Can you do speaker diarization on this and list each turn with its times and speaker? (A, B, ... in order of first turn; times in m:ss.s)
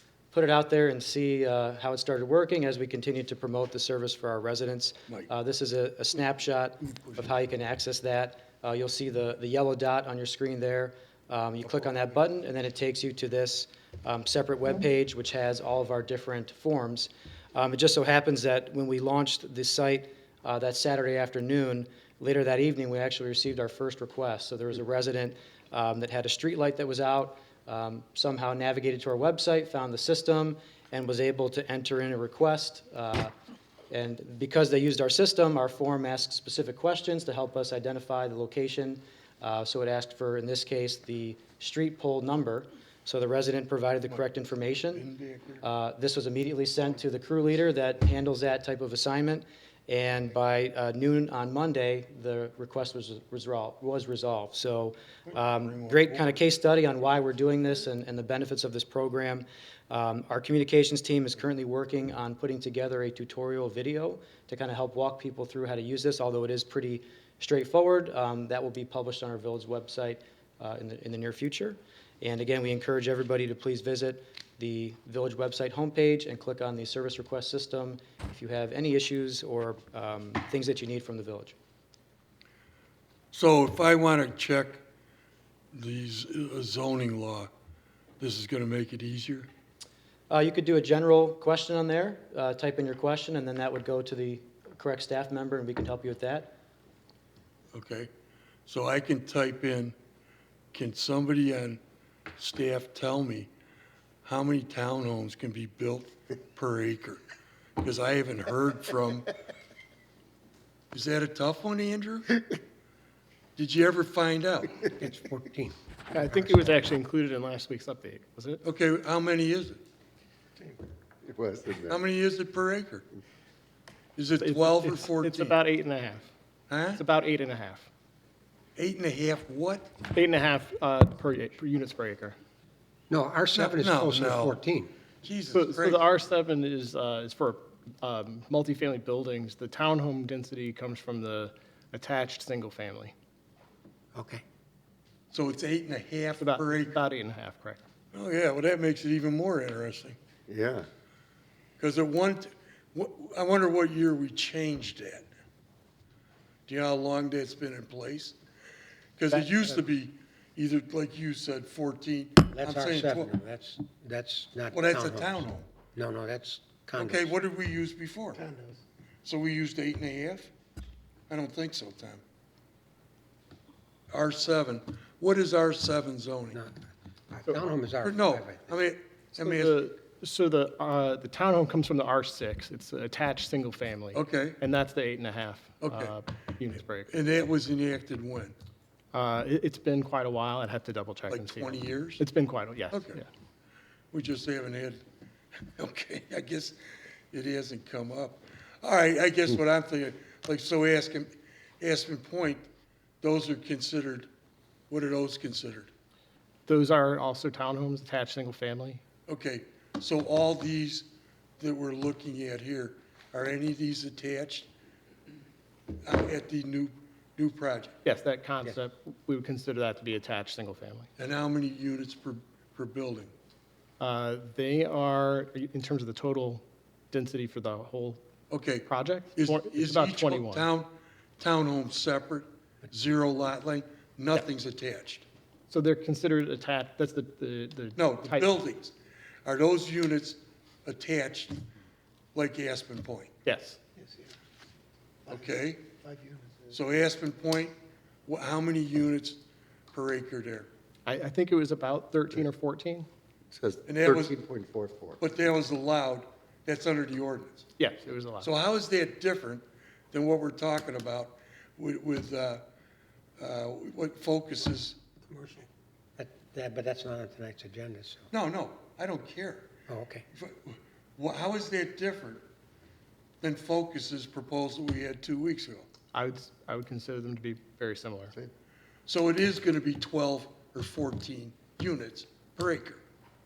0:00.3-0:33.3 A
0:06.8-0:07.2 B
0:33.9-0:45.1 A
0:44.9-0:45.6 B
0:45.6-1:21.6 A
0:55.5-0:56.4 B
1:23.3-1:24.8 B
1:25.7-1:27.5 B
1:28.2-1:29.5 B
1:30.3-1:36.5 A
1:37.7-1:38.1 B
1:38.7-1:39.9 B
1:40.7-1:41.8 B
1:42.4-1:43.5 B
1:44.2-1:47.2 B
1:47.8-1:49.3 B
1:50.9-1:52.4 B
1:53.6-1:54.9 B
1:54.9-1:56.8 C
1:56.1-1:58.6 D
1:58.6-1:59.8 B
2:01.2-2:02.0 E
2:01.9-2:03.1 B
2:04.2-2:05.6 B
2:04.4-2:06.3 D
2:06.7-2:07.0 B
2:06.9-2:07.9 D
2:08.8-2:09.9 B
2:10.1-2:12.4 D
2:13.1-2:14.9 C
2:13.6-2:14.6 B
2:15.2-2:16.0 B
2:15.5-2:23.1 D
2:24.2-2:24.4 C
2:25.3-2:27.0 B
2:26.4-2:27.8 D
2:28.1-2:30.2 B
2:30.5-2:30.9 E
2:31.8-2:35.3 B
2:36.7-2:38.4 B
2:39.2-2:43.3 B
2:42.5-2:47.3 C
2:44.7-2:45.8 B
2:47.0-2:48.4 B
2:49.2-2:50.5 B
2:51.3-2:52.2 B
2:54.1-2:56.6 B
2:56.5-2:56.8 C
2:57.3-2:58.8 C
2:58.0-2:59.8 B
2:59.4-3:07.1 D
3:04.1-3:04.6 B
3:05.8-3:06.2 B
3:07.1-3:08.6 B
3:09.1-3:13.3 D
3:11.3-3:12.2 B
3:12.9-3:13.2 B
3:14.1-3:15.0 B
3:15.6-3:16.8 B
3:17.3-3:22.7 B
3:23.2-3:24.3 B
3:24.9-3:25.9 B
3:26.7-3:29.0 D
3:29.3-3:34.7 B
3:36.0-3:38.0 B
3:38.0-3:41.1 D
3:41.2-3:43.3 B
3:44.0-3:48.2 D
3:48.5-3:55.2 B
3:48.9-3:50.7 D
3:55.7-3:58.5 D
3:58.0-3:58.9 B
3:59.4-4:01.7 B
4:02.4-4:03.3 B
4:03.4-4:03.8 D
4:05.3-4:06.0 B
4:06.7-4:10.7 B
4:11.1-4:13.1 D
4:13.5-4:15.2 E
4:13.9-4:14.4 B
4:15.2-4:17.7 B
4:17.8-4:18.5 D
4:18.4-4:22.6 B
4:23.4-4:25.1 B
4:25.2-4:28.3 C
4:28.3-4:29.8 B
4:29.9-4:30.2 C
4:30.3-4:32.4 B
4:33.4-4:35.9 B
4:36.1-4:38.4 D
4:39.1-4:43.0 B